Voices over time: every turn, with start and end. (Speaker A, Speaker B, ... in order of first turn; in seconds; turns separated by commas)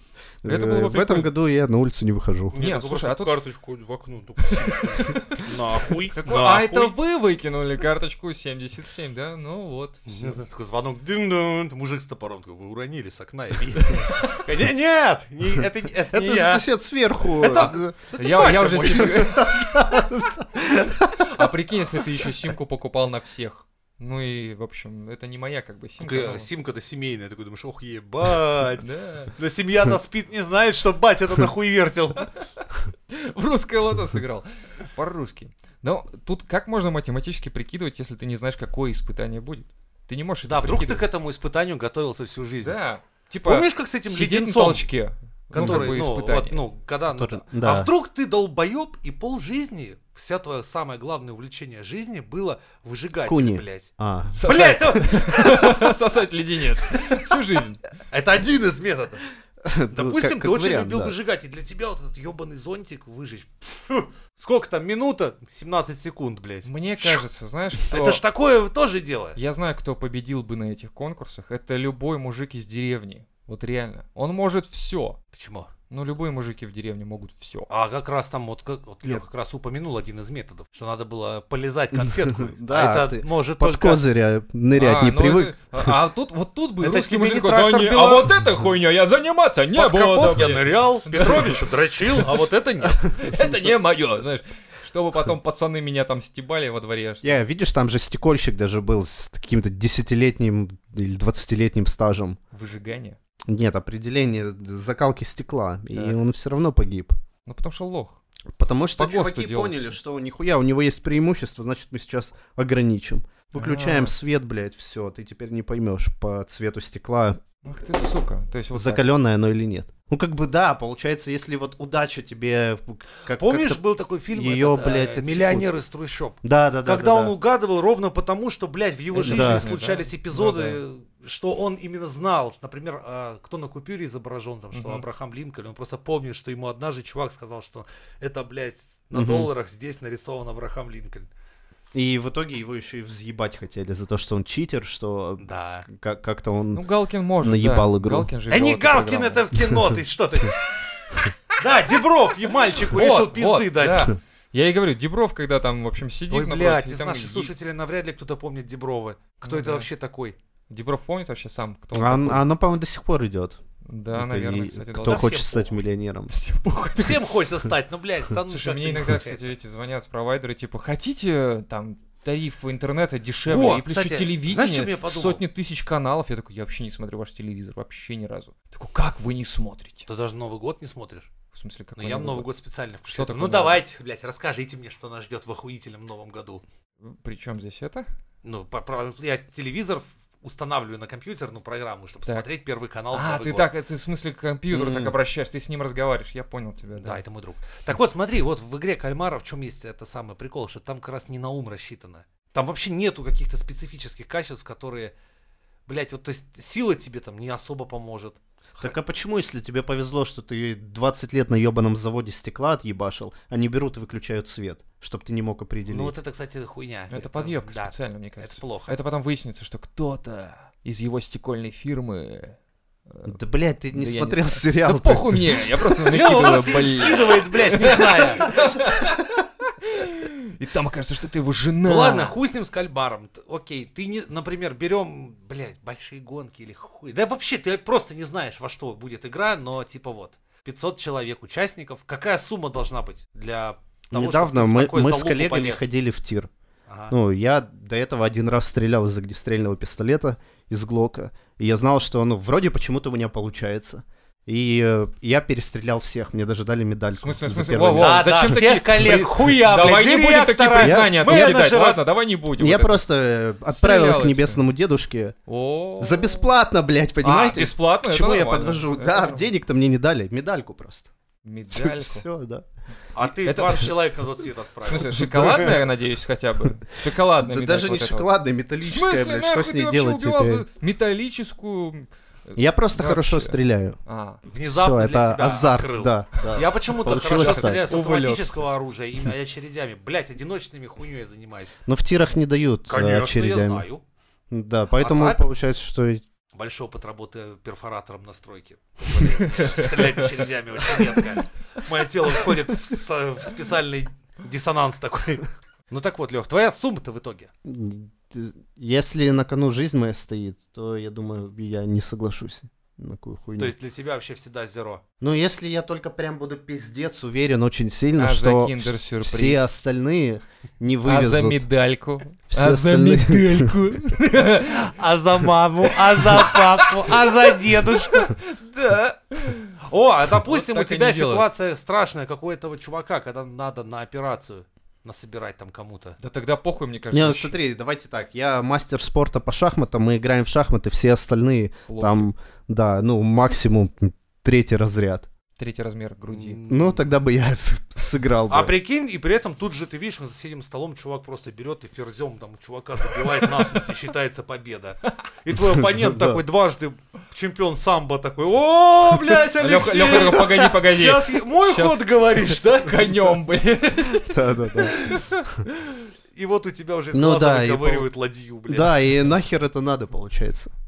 Speaker A: 0.4-2.6, Speaker B: 0.5-1.3, Speaker C: 2.5-6.9, Speaker B: 2.5-3.3, Speaker B: 4.5-5.5, Speaker B: 6.1-10.4, Speaker C: 10.1-16.7, Speaker B: 14.0-14.3, Speaker A: 16.1-18.1, Speaker C: 17.2-19.3, Speaker B: 18.2-20.0, Speaker A: 18.9-21.4, Speaker B: 20.7-26.5, Speaker C: 26.0-32.3, Speaker B: 28.8-29.3, Speaker B: 32.2-41.1, Speaker C: 40.5-42.8, Speaker B: 42.6-46.6, Speaker C: 43.4-44.9, Speaker C: 45.5-53.9, Speaker A: 45.5-46.0, Speaker A: 47.1-47.9, Speaker A: 53.3-54.6, Speaker B: 54.3-57.8, Speaker C: 54.4-55.7, Speaker C: 58.1-59.2, Speaker A: 59.6-61.1, Speaker C: 59.9-67.2, Speaker B: 66.6-68.2, Speaker C: 67.8-69.4, Speaker B: 69.3-75.2, Speaker C: 75.3-75.7, Speaker B: 75.9-77.7, Speaker C: 77.7-84.0, Speaker A: 82.0-85.9, Speaker B: 84.7-92.3, Speaker C: 86.8-88.3, Speaker C: 89.8-93.1, Speaker B: 93.0-97.3, Speaker A: 97.2-102.4, Speaker B: 102.5-103.2, Speaker A: 103.5-107.1, Speaker B: 105.9-106.2, Speaker B: 107.5-108.2, Speaker A: 108.6-117.4, Speaker B: 109.0-110.0, Speaker B: 113.5-114.1, Speaker B: 117.6-119.0, Speaker A: 118.7-123.8, Speaker C: 123.3-141.3, Speaker A: 124.3-125.7, Speaker A: 126.4-127.3, Speaker B: 129.1-130.8, Speaker A: 129.2-129.7, Speaker B: 134.7-135.0, Speaker A: 139.1-139.5, Speaker A: 141.9-146.8, Speaker C: 145.4-145.9, Speaker B: 146.7-149.5, Speaker A: 147.4-148.3, Speaker C: 148.5-150.7, Speaker C: 151.6-154.1, Speaker B: 152.8-157.5, Speaker C: 156.3-160.3, Speaker B: 159.4-159.9, Speaker B: 160.7-162.4, Speaker A: 161.9-163.6, Speaker B: 163.8-165.3, Speaker A: 164.1-166.3, Speaker C: 165.0-165.8, Speaker B: 166.3-167.3, Speaker C: 166.9-169.5, Speaker B: 168.5-180.1, Speaker C: 173.4-175.4, Speaker C: 180.1-181.3, Speaker B: 181.5-182.5, Speaker C: 182.0-186.6, Speaker B: 183.1-183.8, Speaker B: 187.0-188.1, Speaker C: 188.4-193.7, Speaker B: 193.1-197.2, Speaker A: 194.7-195.1, Speaker C: 197.0-205.1, Speaker C: 205.9-208.9, Speaker A: 208.8-216.2, Speaker C: 215.8-218.9, Speaker B: 217.1-222.6, Speaker B: 223.1-223.4, Speaker A: 223.2-226.0, Speaker B: 223.9-232.3, Speaker C: 226.1-228.5, Speaker C: 231.8-245.9, Speaker A: 244.1-246.5, Speaker C: 246.9-247.1, Speaker A: 247.1-259.3, Speaker B: 257.1-263.0, Speaker C: 258.0-262.0, Speaker A: 260.8-261.6, Speaker A: 262.6-265.4, Speaker B: 263.7-264.6, Speaker B: 265.5-266.5, Speaker A: 266.0-271.1, Speaker B: 267.2-269.5, Speaker B: 271.4-272.3, Speaker A: 271.7-272.7, Speaker C: 273.1-275.8, Speaker B: 273.4-274.0, Speaker B: 274.8-278.3, Speaker A: 277.4-280.6, Speaker B: 278.8-284.4, Speaker A: 282.6-284.0, Speaker C: 284.5-291.7, Speaker A: 284.6-287.8, Speaker B: 287.1-288.6, Speaker A: 291.9-293.9, Speaker C: 292.9-294.0, Speaker A: 294.5-296.2, Speaker C: 295.0-295.4, Speaker C: 296.5-307.5, Speaker B: 299.6-300.3, Speaker B: 300.9-301.2, Speaker A: 307.6-313.7, Speaker C: 313.6-315.0, Speaker A: 315.2-321.6, Speaker B: 318.2-319.7, Speaker B: 321.1-324.9, Speaker A: 322.5-323.9, Speaker C: 324.6-328.3, Speaker B: 326.0-329.8, Speaker C: 329.8-336.2, Speaker B: 330.4-331.4, Speaker B: 336.2-337.6, Speaker A: 337.1-345.3, Speaker B: 341.9-342.3, Speaker B: 345.6-346.6, Speaker C: 346.3-347.0, Speaker A: 346.7-348.7, Speaker C: 348.5-363.4, Speaker B: 353.1-353.9, Speaker A: 355.9-356.4, Speaker B: 359.6-365.9, Speaker A: 364.1-365.6, Speaker C: 366.3-369.1, Speaker A: 367.1-368.1, Speaker A: 368.7-370.7